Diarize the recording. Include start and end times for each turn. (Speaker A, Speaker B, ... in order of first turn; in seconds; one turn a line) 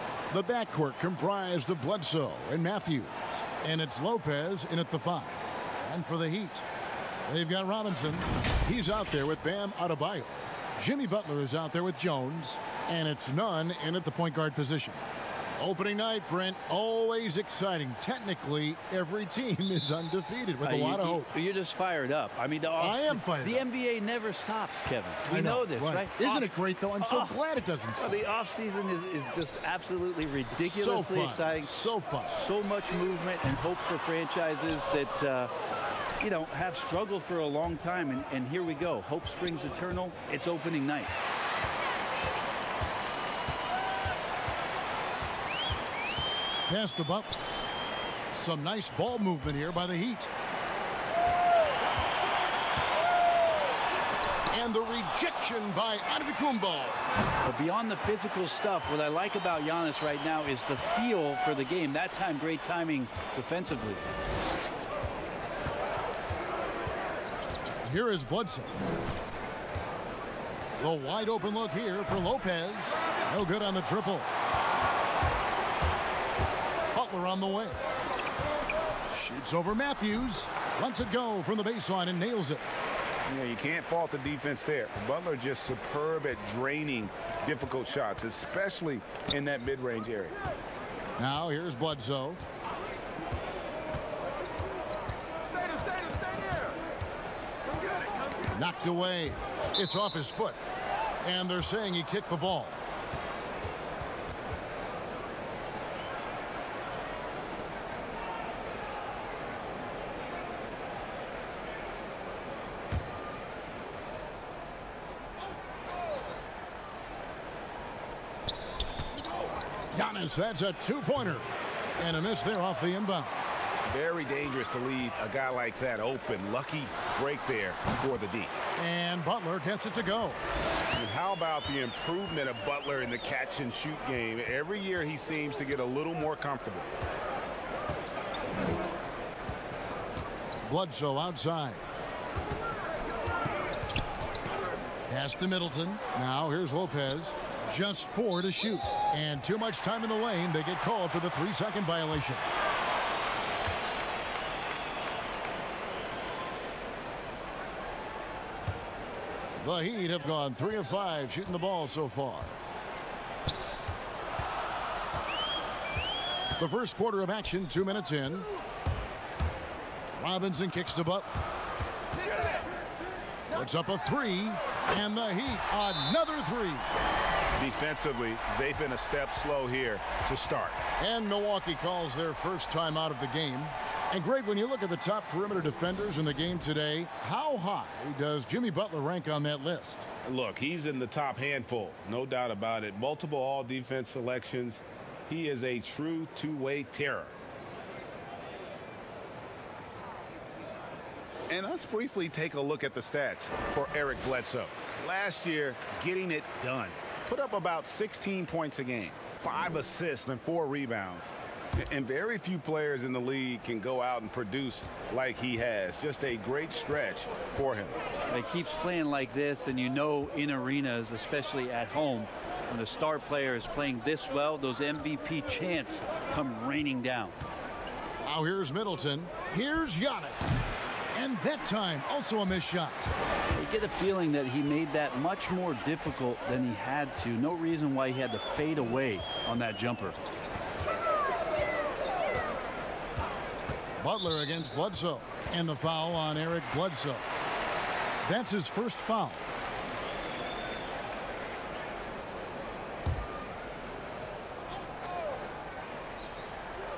Speaker A: 0.3-6.7
Speaker A: 7.3-15.0
Speaker A: 15.6-21.3
Speaker B: 20.6-27.4
Speaker A: 22.8-23.7
Speaker A: 25.3-28.2
Speaker B: 28.0-35.5
Speaker A: 30.5-32.4
Speaker B: 36.2-41.1
Speaker A: 46.7-47.4
Speaker A: 48.3-50.3
Speaker A: 54.5-57.0
Speaker B: 57.4-64.0
Speaker A: 67.8-68.8
Speaker A: 70.8-74.3
Speaker A: 76.9-77.8
Speaker A: 79.1-82.7
Speaker C: 83.3-90.3
Speaker A: 91.2-92.4
Speaker A: 98.5-100.6
Speaker A: 101.2-102.8
Speaker A: 119.9-123.4
Speaker C: 123.9-128.5
Speaker A: 128.8-130.4
Speaker C: 130.9-136.9
Speaker A: 140.6-141.9
Speaker A: 145.1-152.4
Speaker A: 159.6-162.6
Speaker A: 166.6-168.5
Speaker A: 170.2-171.4
Speaker A: 173.5-176.9
Speaker C: 177.6-180.8
Speaker A: 181.0-190.0
Speaker C: 190.2-197.3
Speaker C: 201.5-218.0
Speaker B: 218.3-227.4
Speaker A: 228.2-230.6
Speaker A: 231.1-233.1
Speaker B: 233.6-240.2
Speaker A: 244.0-247.3
Speaker A: 248.2-249.5